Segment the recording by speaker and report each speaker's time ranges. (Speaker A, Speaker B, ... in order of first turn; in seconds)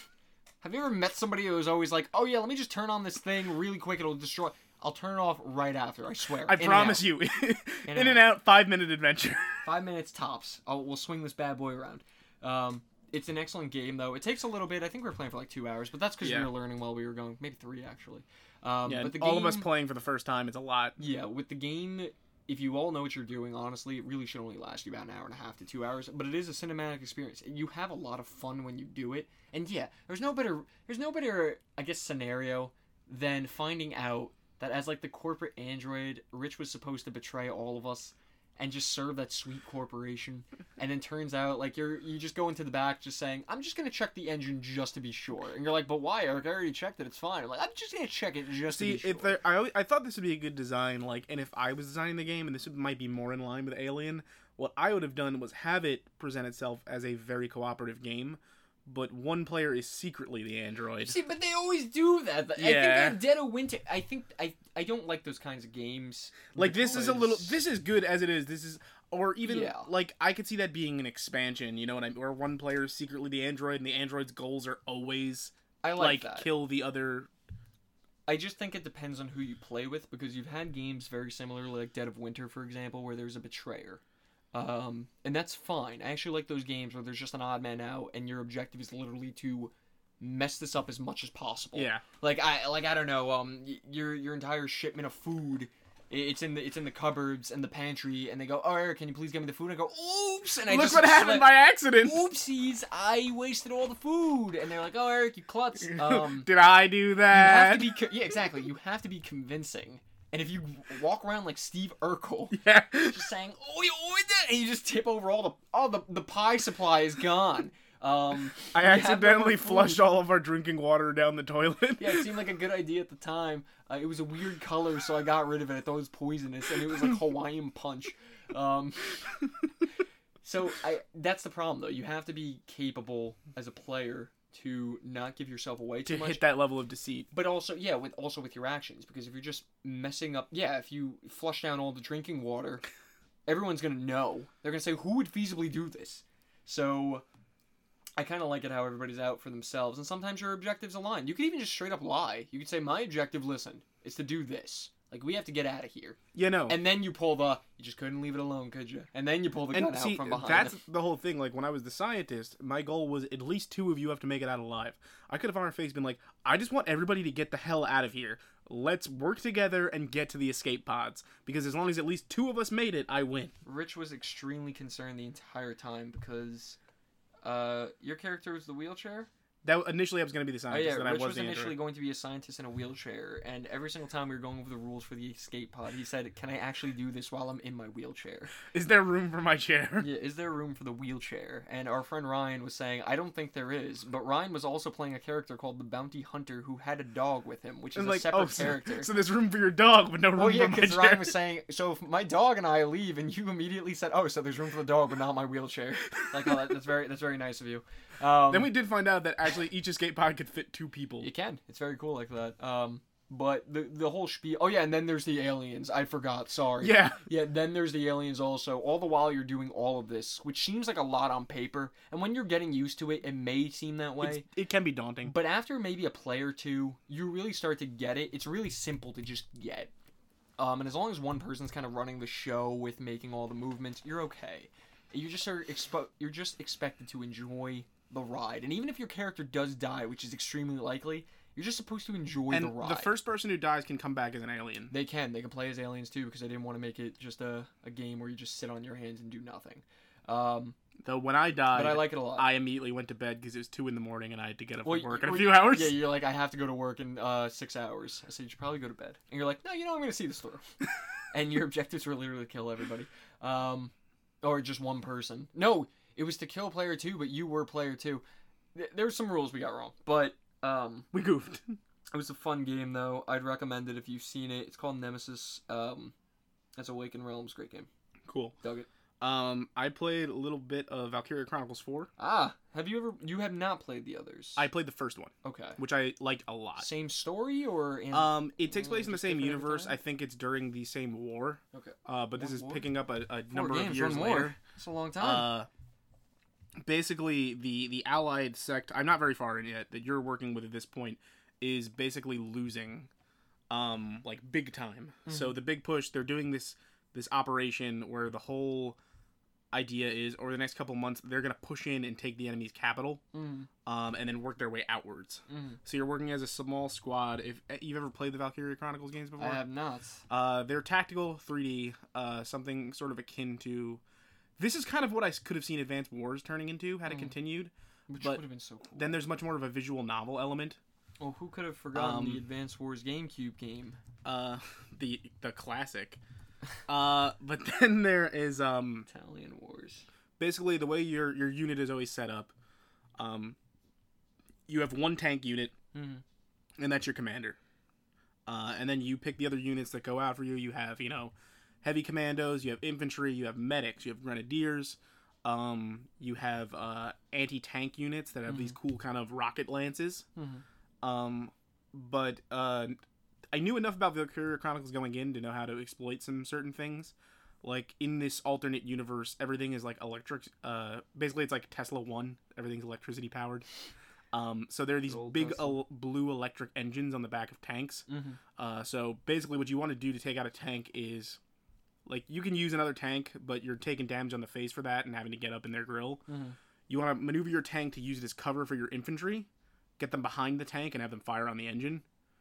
Speaker A: 0.6-7.1, 7.9-8.2, 9.7-19.7, 21.0-49.4, 61.0-67.6, 69.5-69.9, 75.8-76.5, 78.3-84.0, 84.5-106.5, 107.3-120.0, 122.0-129.3, 130.4-136.4, 137.3-142.8, 143.5-147.2, 148.2-160.8, 173.6-176.8, 177.4-179.3, 180.7-188.6, 190.0-199.1, 200.3-208.7, 211.2-224.5, 225.2-229.9, 230.6-243.1, 244.9-250.8, 251.7-252.5, 254.8-260.7, 261.3-268.2, 268.8-271.1, 272.1-276.1, 276.8-277.9, 278.6-278.9, 282.2-284.7, 285.4-285.8, 286.8-290.0, 291.7-292.9, 293.5-295.5, 305.3-305.6, 313.3-313.7, 315.5-315.8, 319.4-320.2, 327.1-327.3, 328.1-329.2, 331.2-334.0, 339.1-340.1, 345.9-346.2, 358.5-358.8, 360.4-360.6, 375.1-375.8, 378.1-378.4, 386.3-386.6
Speaker B: 6.4-9.6, 16.2-16.5, 18.9-21.0, 48.7-61.2, 62.6-63.2, 66.5-77.3, 91.8-92.0, 100.7-102.3, 105.8-108.0, 112.5-113.3, 118.7-122.3, 136.1-137.3, 156.3-156.8, 159.7-173.5, 179.6-181.8, 188.7-190.1, 197.9-201.4, 208.5-211.3, 216.8-217.2, 224.2-225.3, 242.5-244.9, 251.0-256.1, 271.1-271.8, 278.3-278.6, 279.2-282.1, 284.6-286.9, 288.1-294.6, 295.2-295.7, 296.8-303.1, 303.7-309.0, 309.7-313.2, 313.9-319.6, 320.3-324.0, 324.6-328.4, 328.9-330.8, 331.9-332.4, 334.2-336.2, 336.9-339.1, 340.4-342.5, 343.2-343.6, 344.7-345.7, 346.8-347.6, 348.5-360.3, 361.0-363.0, 363.5-373.6, 374.3-378.1, 378.6-381.4, 382.1-386.2, 386.9-389.5, 390.0-392.0